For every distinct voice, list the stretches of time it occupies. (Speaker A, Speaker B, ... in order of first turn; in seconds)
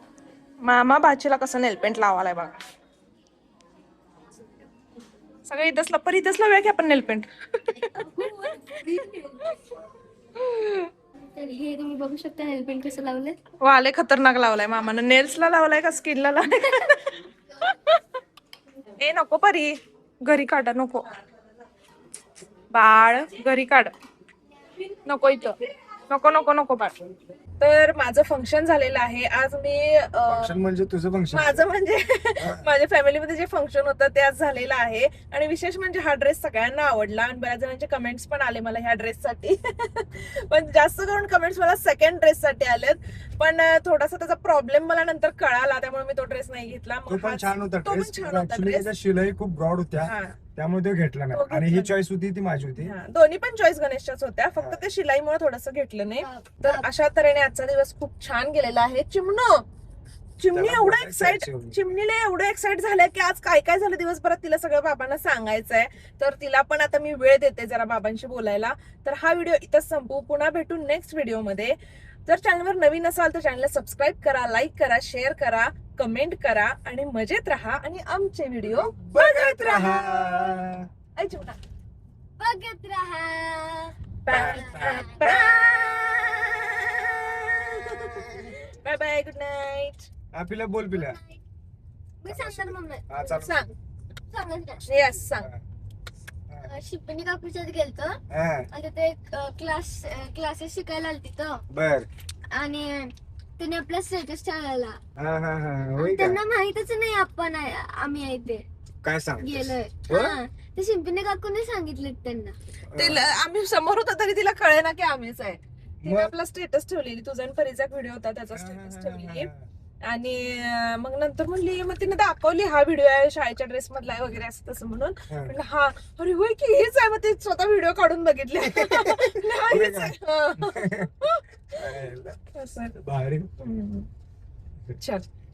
Speaker A: 0.6-2.5, 5.5-8.2, 10.4-10.9, 13.6-18.0, 19.0-21.0, 22.7-23.9, 25.0-25.6, 26.1-26.9, 27.6-30.5, 31.3-48.9, 50.0-50.4, 51.3-52.0, 52.8-59.6, 60.4-71.7, 72.2-80.6, 81.2-81.6, 84.2-86.0, 87.5-90.0, 93.2-93.7, 94.8-95.5, 112.9-119.5, 120.0-133.0, 133.6-134.1, 135.0-135.3
Speaker B: 7.8-9.8, 11.3-13.4, 56.2-56.9, 82.4-88.5, 90.9-91.4, 92.2-93.1, 94.3-94.8, 96.6-101.6, 102.5-105.0, 106.0-108.6, 109.4-112.5
Speaker C: 30.3-31.6, 32.4-32.7, 47.1-52.9, 54.6-54.8, 60.5-61.9, 78.6-80.9, 84.3-85.2, 90.3-91.2, 92.3-93.7, 95.0-95.6, 98.3-98.7, 101.7-102.1, 105.2-106.4, 109.0-110.4, 112.9-113.2, 116.0-116.3, 118.5-119.7, 128.7-131.1, 131.7-132.4, 133.0-133.5